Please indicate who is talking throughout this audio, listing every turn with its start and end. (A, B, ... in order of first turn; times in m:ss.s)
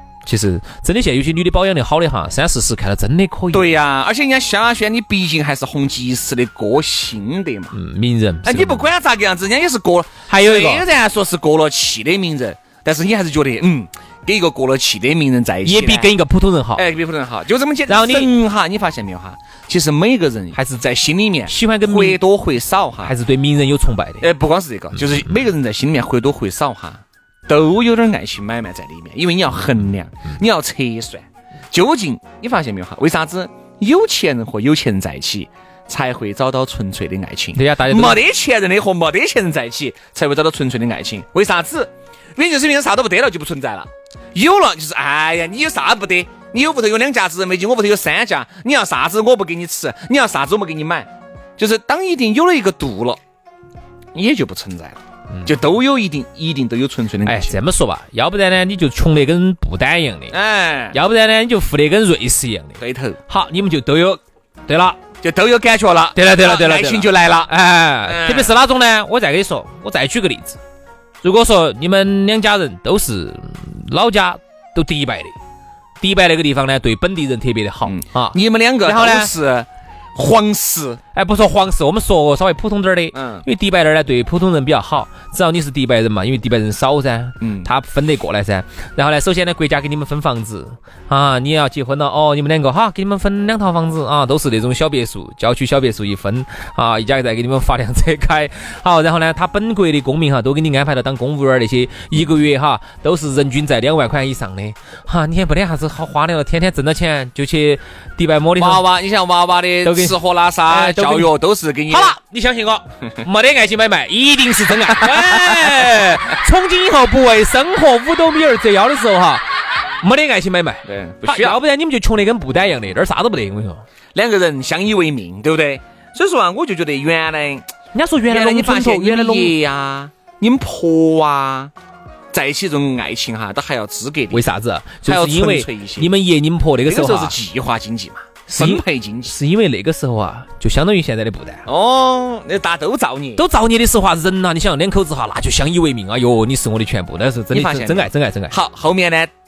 0:00.2-0:03.7 A
0:03.5-0:07.8 B
0:07.7-0:08.9 A
0:08.4-0:16.1 B
0:10.3-0:10.8 A
0:15.6-0:16.8 A
0:16.8-0:23.1 B
0:17.9-0:18.3 A
0:20.5-0:20.8 A
0:21.5-0:22.2 A
0:23.0-0:24.3 A
0:24.2-0:53.2 B
0:37.5-0:38.2 A
0:54.1-0:57.6 B
0:57.2-1:00.3 A
1:00.3-1:01.0 B
1:00.9-1:05.0 A
1:02.8-1:03.2 B
1:05.2-1:07.5 B
1:06.1-1:10.6 A
1:08.0-1:08.5 B
1:11.2-1:15.4 A
1:16.0-1:19.3 A
1:17.9-1:21.0 B
1:21.1-1:48.8 A
1:23.1-1:23.4 B
1:27.4-1:27.7 B
1:48.6-1:52.2 B
1:49.8-1:51.3 A
1:51.9-1:59.4 A
1:55.0-1:55.7 B
2:00.0-2:03.8 A
2:00.8-2:01.6 B
2:04.1-2:07.6 B
2:07.9-2:09.5 A
2:08.3-2:11.7 B
2:12.3-2:14.4 B
2:14.3-2:17.4 A
2:15.0-2:16.1 B
2:16.8-2:19.3 B
2:18.5-2:21.6 A
2:21.6-2:23.4 B
2:23.4-2:28.5 A
2:27.5-2:29.3 B